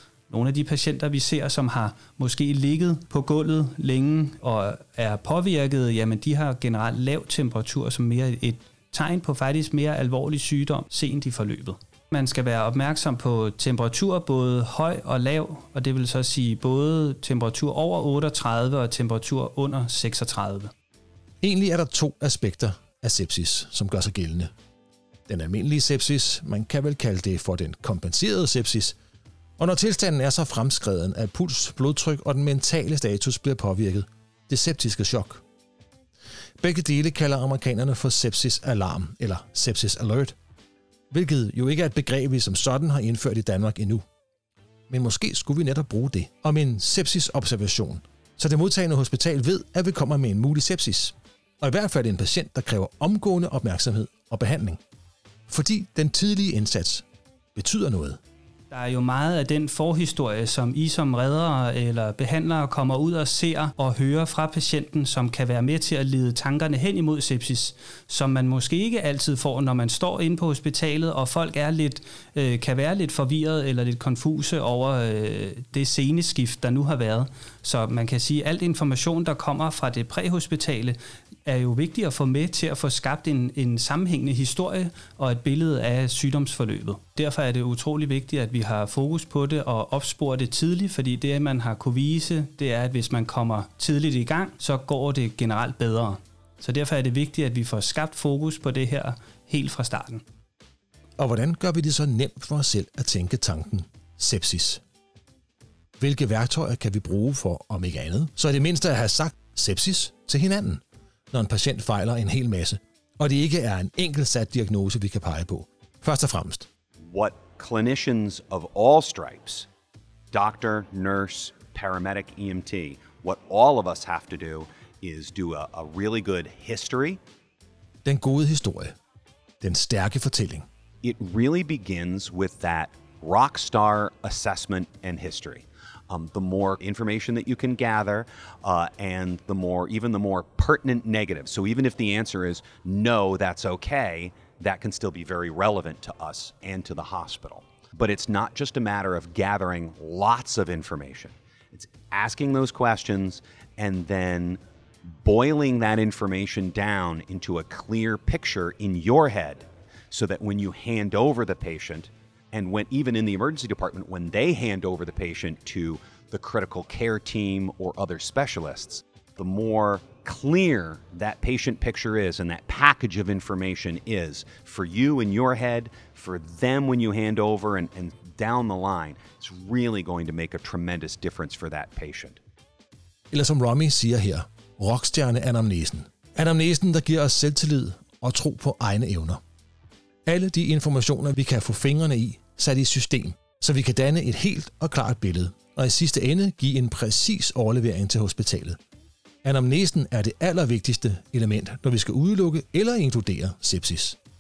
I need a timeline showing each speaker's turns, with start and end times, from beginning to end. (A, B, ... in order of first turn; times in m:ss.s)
0:00.3-0:20.7 A
0:21.4-0:24.5 B
0:25.3-0:29.0 B
0:29.6-0:35.4 B
0:36.6-0:40.4 B
0:41.1-0:44.0 B
0:44.9-0:54.8 B
0:55.5-0:58.2 B
0:58.7-1:40.2 A
1:41.2-1:44.8 B
1:46.0-1:56.7 B
1:57.0-1:59.7 C
2:00.3-2:07.2 C
2:08.0-2:09.0 B
2:09.6-2:10.7 B
2:11.0-3:02.4 C
3:03.3-3:09.4 B
3:10.3-3:18.8 B
3:19.4-3:24.2 B